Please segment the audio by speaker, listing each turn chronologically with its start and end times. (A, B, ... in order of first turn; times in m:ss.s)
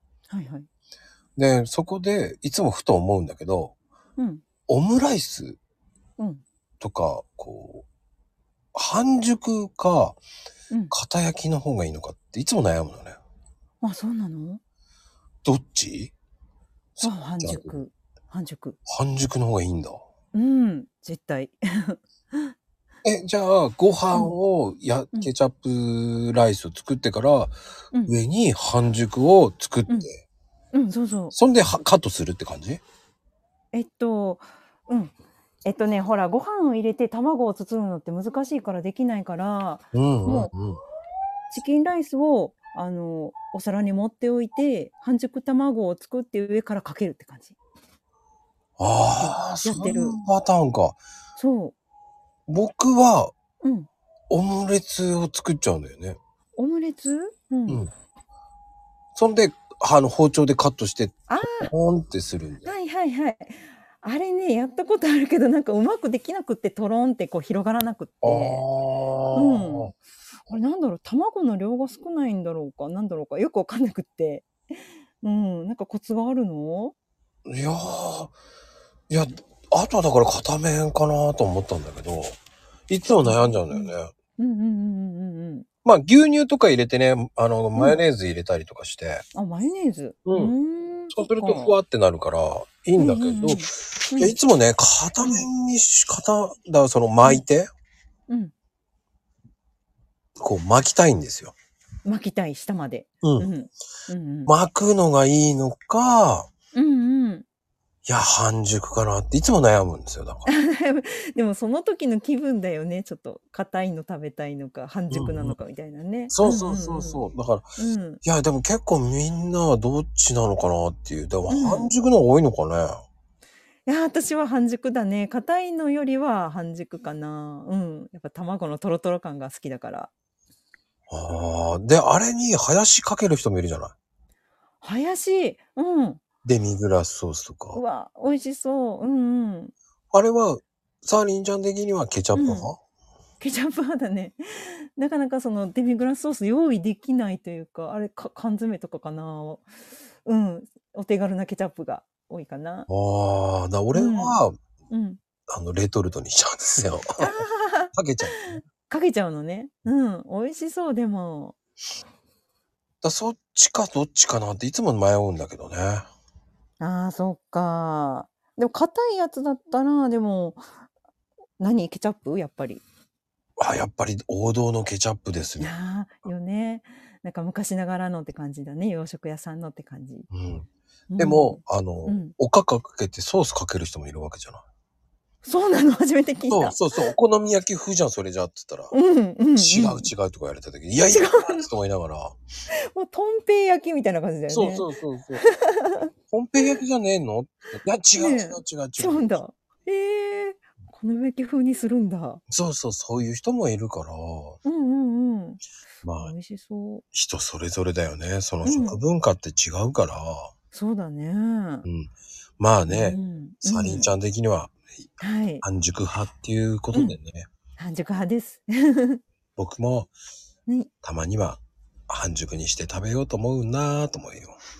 0:00.3-0:00.7 A
0:01.4-0:03.7 B
0:04.2-0:04.4 A
0:04.7-0:05.6 B
0:06.2-0:06.4 A
0:06.8-0:07.8 B
0:08.7-0:10.2 B
0:10.9-0:13.2 B
0:13.8-0:14.6 A
0:15.4-0:16.1 B
0:17.0-0:17.8 B
0:17.0-0:18.8 A
0:18.9-0:20.0 B
0:20.3-0:22.5 A
0:23.0-0:27.5 B
0:28.0-0:30.2 B
0:30.7-0:31.3 A
0:31.3-0:32.8 B
0:33.7-0:35.1 A
0:35.6-0:40.5 A
0:39.9-0:40.8 B
0:41.5-0:47.6 A
0:48.8-0:51.0 B
0:49.2-0:50.2 A
0:51.4-0:51.7 A
0:52.5-0:53.3 B
0:53.6-0:53.9 A
0:54.3-0:56.2 B
0:56.6-0:57.8 A
0:59.1-1:02.7 B
1:01.3-1:01.7 A
1:02.6-1:08.6 A
1:08.2-1:09.9 B
1:09.3-1:09.9 A
1:10.5-1:16.9 A
1:17.4-1:18.3 B
1:19.1-1:22.4 B
1:22.9-1:24.1 B
1:23.0-1:25.7 A
1:25.8-1:29.2 B
1:29.3-1:31.8 A
1:30.2-1:30.5 B
1:31.1-1:37.7 B
1:33.0-1:34.4 A
1:35.2-1:35.5 A
1:40.4-1:41.5 B
1:42.0-1:44.5 A
1:43.2-1:43.5 B
1:44.5-1:46.5 B
1:46.7-1:47.4 A
1:48.0-1:50.5 B
1:50.4-1:57.2 A
1:55.1-1:55.6 B
1:56.3-1:57.6 B
1:57.8-1:58.2 A
1:58.2-2:03.0 B
2:01.5-2:01.9 A
2:03.8-2:10.1 A
2:11.1-2:13.9 B
2:14.8-2:16.2 A
2:16.4-2:17.8 B
2:17.7-2:19.7 A
2:20.1-2:22.8 B
2:22.3-2:22.7 A
2:23.4-2:29.7 A
2:30.2-2:32.9 A
2:32.9-2:34.5 B
2:33.9-2:35.2 A
2:35.5-2:37.3 B
2:37.2-2:41.6 A
2:37.9-2:38.6 B
2:43.0-2:46.1 B
2:46.8-2:50.6 A
2:51.6-2:52.8 A
2:53.6-2:55.7 B
2:55.6-3:00.3 A
3:00.3-3:00.7 B
3:01.1-3:02.3 A
3:01.2-3:04.6 B
3:05.4-3:07.1 A
3:06.5-3:08.9 B
3:08.9-3:10.1 A
3:09.6-3:12.4 B
3:11.1-3:11.7 A
3:12.7-3:16.1 A
3:14.5-3:15.4 B
3:16.3-3:19.4 B
3:18.2-3:22.4 A
3:22.5-3:24.6 B
3:24.6-3:25.6 A
3:26.0-3:26.3 B
3:26.2-3:27.0 A
3:27.1-3:30.5 B
3:28.6-3:29.0 A
3:30.7-3:31.9 A
3:31.8-3:34.8 B
3:32.9-3:34.1 A
3:35.2-3:35.6 A
3:35.6-3:37.5 B
3:36.9-3:37.2 A
3:37.8-3:39.2 A
3:39.6-3:40.1 B
3:41.0-3:44.6 B